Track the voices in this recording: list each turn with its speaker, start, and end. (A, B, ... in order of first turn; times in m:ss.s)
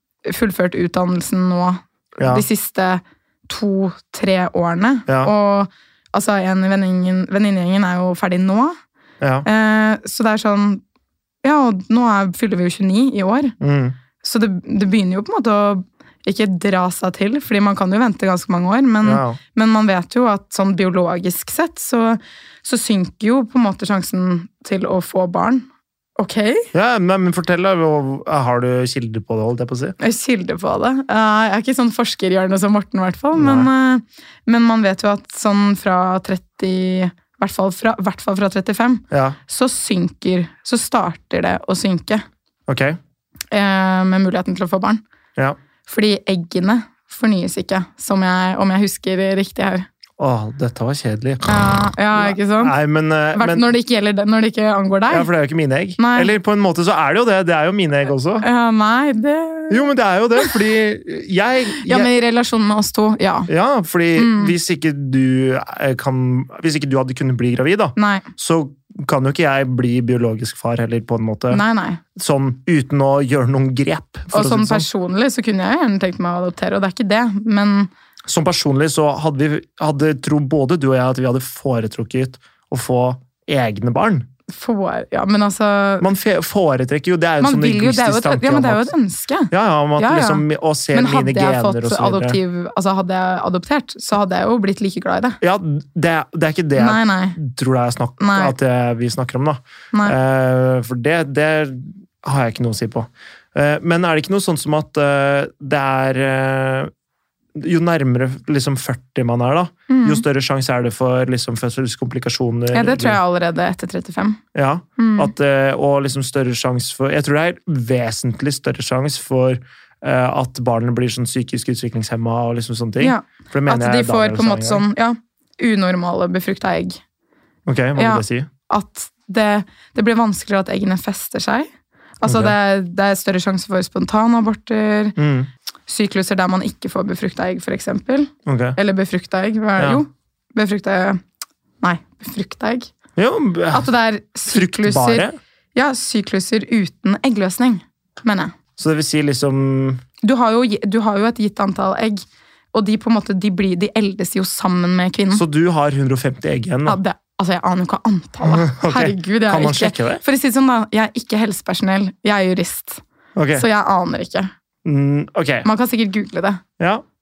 0:00.3-0:08.8 A
0:02.2-0:02.4 B
0:05.1-0:05.3 B
0:09.2-0:09.5 B
0:09.4-0:10.8 A
0:11.4-0:13.6 A
0:13.6-0:14.0 B
0:14.2-0:25.7 A
0:19.0-0:19.4 B
0:26.2-0:26.7 A
0:26.7-0:30.0 B
0:30.0-0:42.2 A
0:33.4-0:33.7 B
0:39.1-0:39.4 B
0:42.7-0:43.0 B
0:43.5-0:45.0 A
0:45.9-0:49.9 A
0:50.2-0:53.7 B
0:51.5-0:52.8 A
0:53.3-0:55.3 A
0:55.1-0:58.4 B
0:56.0-0:56.3 A
0:58.4-1:00.5 A
0:59.7-1:02.1 B
1:01.8-1:03.5 A
1:03.5-1:11.6 B
1:04.2-1:04.5 A
1:08.0-1:08.3 A
1:11.5-1:12.0 A
1:12.2-1:14.9 B
1:14.3-1:17.9 A
1:18.3-1:24.3 B
1:24.5-1:26.1 A
1:26.0-1:28.9 B
1:27.4-1:35.4 A
1:29.5-1:32.4 B
1:35.4-1:46.9 B
1:36.8-1:37.4 A
1:38.2-1:38.6 A
1:47.6-1:53.2 B
1:49.9-1:50.2 A
1:52.7-1:54.4 A
1:54.6-2:04.8 B
1:55.0-1:55.3 A
2:03.0-2:07.0 A
2:07.7-2:08.5 B
2:08.0-2:11.7 A
2:12.2-2:15.2 A
2:12.2-2:12.6 B
2:15.2-2:15.5 B
2:15.9-2:21.2 A
2:18.5-2:18.8 B
2:21.8-2:22.9 A
2:23.2-2:23.9 B
2:23.7-2:28.6 A
2:24.5-2:25.4 B
2:28.8-2:30.0 B
2:30.2-2:35.4 A
2:35.3-2:37.0 B
2:36.9-2:43.0 A
2:38.4-2:40.2 B
2:43.4-2:43.6 B
2:43.5-2:44.5 A
2:44.8-2:45.7 B
2:45.6-2:46.6 A
2:46.8-2:47.0 B